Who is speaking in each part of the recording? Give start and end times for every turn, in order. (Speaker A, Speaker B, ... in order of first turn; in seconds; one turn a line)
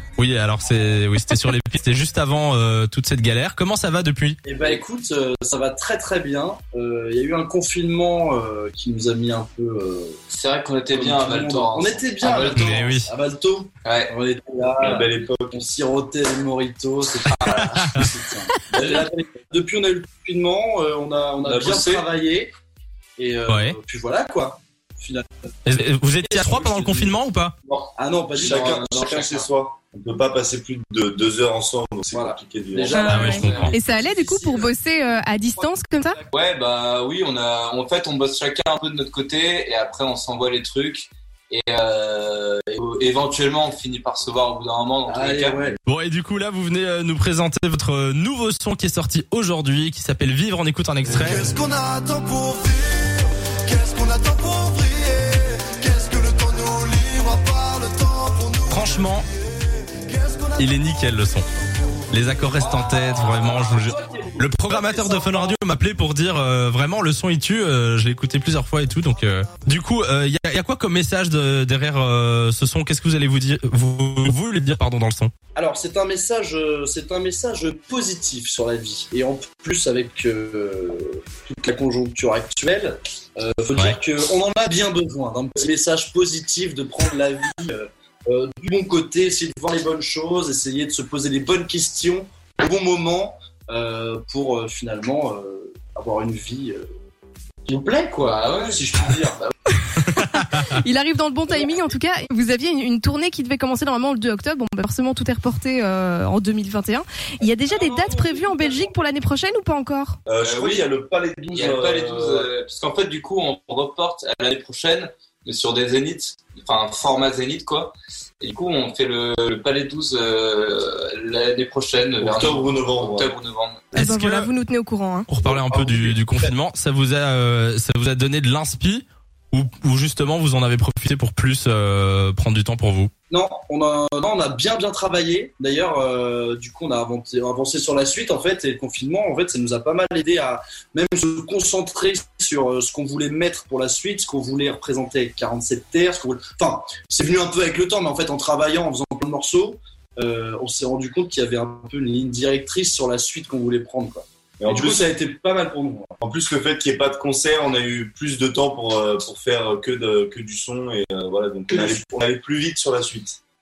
Speaker A: 0.2-4.4
Speaker B: 4.4-10.2
Speaker C: 10.3-13.0
Speaker B: 10.9-22.5
Speaker A: 12.3-13.1
Speaker C: 13.8-14.1
Speaker D: 14.8-15.6
Speaker C: 17.2-17.7
Speaker A: 17.5-18.1
Speaker C: 18.7-19.1
Speaker C: 21.4-22.1
Speaker B: 23.2-25.2
Speaker A: 23.5-23.8
Speaker A: 25.6-27.5
Speaker B: 27.9-29.0
Speaker C: 28.4-29.5
Speaker D: 28.4-32.9
Speaker B: 32.1-36.3
Speaker E: 32.9-36.2
Speaker C: 33.0-33.8
Speaker A: 33.0-33.7
Speaker C: 36.3-45.8
Speaker B: 45.0-45.8
Speaker A: 45.9-51.5
Speaker F: 51.4-59.1
Speaker A: 58.7-59.3
Speaker F: 60.1-60.7
Speaker A: 60.6-61.5
Speaker A: 62.1-75.3
Speaker C: 62.7-63.5
Speaker B: 63.0-65.6
Speaker B: 75.5-96.8
Speaker B: 97.7-99.4
Speaker C: 98.2-99.5
Speaker A: 100.0-100.7
Speaker E: 100.2-110.2
Speaker B: 107.7-109.0
Speaker D: 110.3-112.5
Speaker C: 110.4-110.9
Speaker C: 111.5-123.9
Speaker D: 122.2-123.3
Speaker E: 123.9-125.3
Speaker A: 123.9-124.5
Speaker A: 125.3-133.1
Speaker B: 125.4-126.5
Speaker B: 133.3-156.1
Speaker D: 154.6-155.1
Speaker D: 156.2-163.4